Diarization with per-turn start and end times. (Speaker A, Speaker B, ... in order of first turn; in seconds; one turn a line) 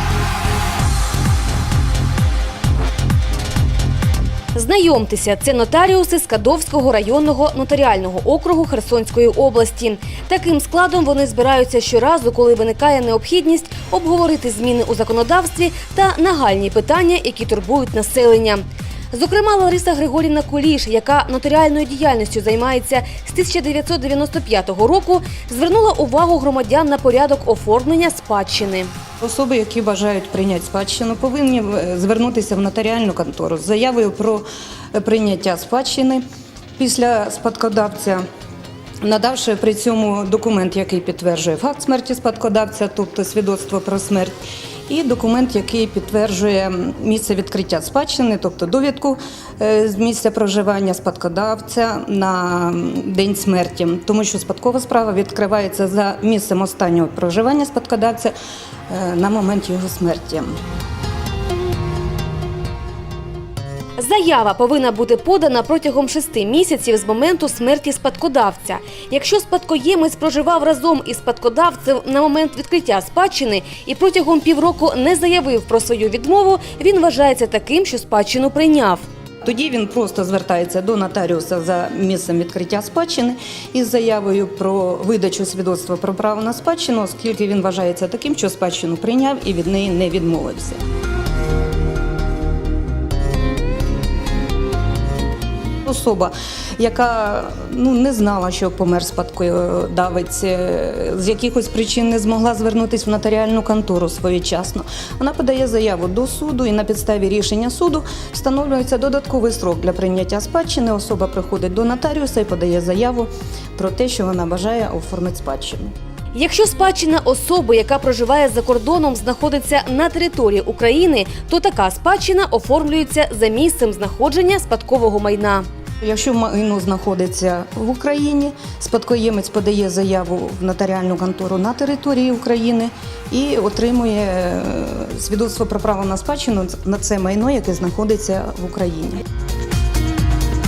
Speaker A: 4.5-28.9
Speaker B: 29.2-36.2
Speaker B: 36.8-38.2
Speaker B: 39.0-44.4
Speaker B: 44.9-58.3
Speaker B: 58.9-60.6
Speaker A: 64.0-79.1
Speaker B: 79.4-90.8
Speaker B: 95.8-115.9
Speaker A: 116.3-125.7
Speaker B: 126.0-139.2